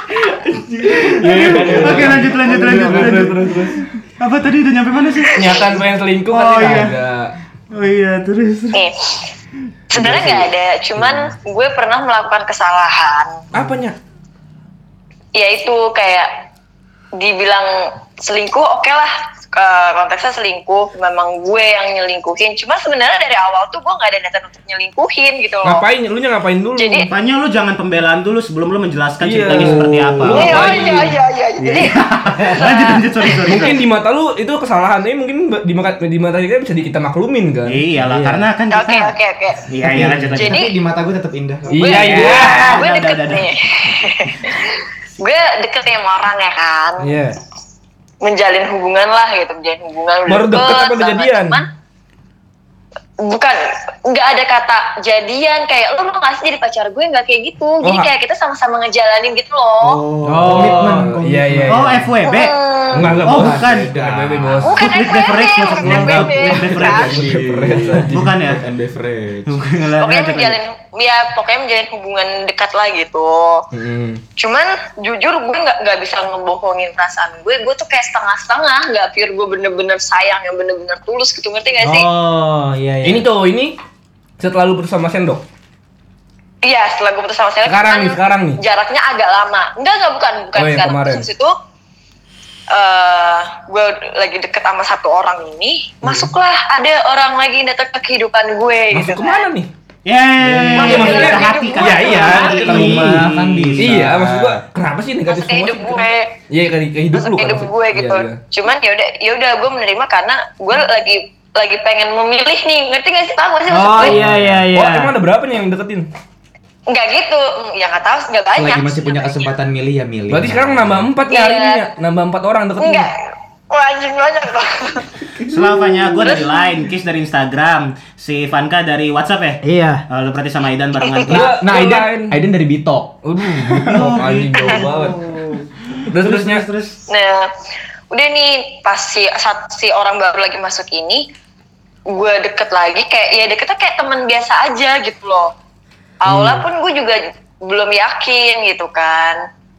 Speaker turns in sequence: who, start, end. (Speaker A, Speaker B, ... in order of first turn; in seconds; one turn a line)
Speaker A: 0.5-3.8
Speaker B: 0.9-5.7
Speaker C: 1.2-3.3
Speaker A: 5.3-7.3
Speaker B: 6.3-7.0
Speaker B: 7.7-8.8
Speaker D: 8.7-9.2
Speaker D: 9.9-13.4
Speaker A: 10.0-10.4
Speaker A: 13.5-14.0
Speaker D: 15.3-16.3
Speaker D: 17.2-25.8
Speaker A: 25.6-27.1
Speaker D: 26.8-27.1
Speaker B: 27.1-31.1
Speaker A: 29.2-31.1
Speaker E: 29.5-30.4
Speaker D: 30.3-33.5
Speaker B: 31.6-33.8
Speaker A: 33.5-38.4
Speaker B: 37.7-39.2
Speaker D: 38.7-39.7
Speaker B: 39.7-40.6
Speaker C: 39.8-42.3
Speaker D: 40.4-40.7
Speaker A: 41.7-42.8
Speaker D: 41.7-47.1
Speaker B: 41.8-44.3
Speaker A: 47.0-47.4
Speaker D: 48.2-51.7
Speaker A: 50.3-51.6
Speaker D: 53.2-60.0
Speaker A: 57.8-58.1
Speaker C: 59.8-62.1
Speaker E: 60.2-61.3
Speaker A: 60.4-62.1
Speaker B: 61.7-64.0
Speaker D: 62.2-63.0
Speaker A: 62.9-64.8
Speaker C: 63.0-64.7
Speaker B: 64.6-67.5
Speaker D: 64.6-67.2
Speaker A: 65.8-68.5
Speaker C: 66.8-69.7
Speaker B: 68.0-68.6
Speaker B: 69.5-70.6
Speaker D: 70.0-73.7
Speaker A: 73.7-74.2
Speaker D: 74.4-82.1
Speaker E: 81.8-83.3
Speaker A: 83.0-83.8
Speaker A: 84.4-85.4
Speaker D: 86.6-91.5
Speaker A: 87.7-88.6
Speaker A: 90.6-91.3
Speaker D: 92.7-99.5
Speaker A: 98.9-99.7
Speaker B: 100.1-104.1
Speaker C: 100.4-101.0
Speaker A: 100.7-103.2
Speaker D: 100.8-102.8
Speaker C: 102.5-104.6
Speaker E: 102.5-103.7
Speaker A: 103.8-108.4
Speaker D: 105.3-106.3
Speaker D: 107.2-114.2
Speaker E: 113.7-115.1
Speaker A: 114.0-116.1
Speaker C: 114.0-114.7
Speaker D: 116.9-119.5
Speaker C: 118.5-121.1
Speaker A: 120.3-123.1
Speaker D: 121.3-121.8
Speaker D: 122.8-125.1
Speaker B: 125.5-131.6
Speaker D: 126.2-126.5
Speaker E: 129.6-130.0
Speaker A: 131.3-132.4
Speaker C: 131.3-133.2
Speaker A: 133.2-135.2
Speaker B: 133.8-137.0
Speaker A: 136.1-136.7
Speaker D: 137.1-137.5
Speaker D: 138.1-141.3
Speaker D: 142.1-145.5
Speaker D: 146.2-149.4
Speaker A: 146.3-146.7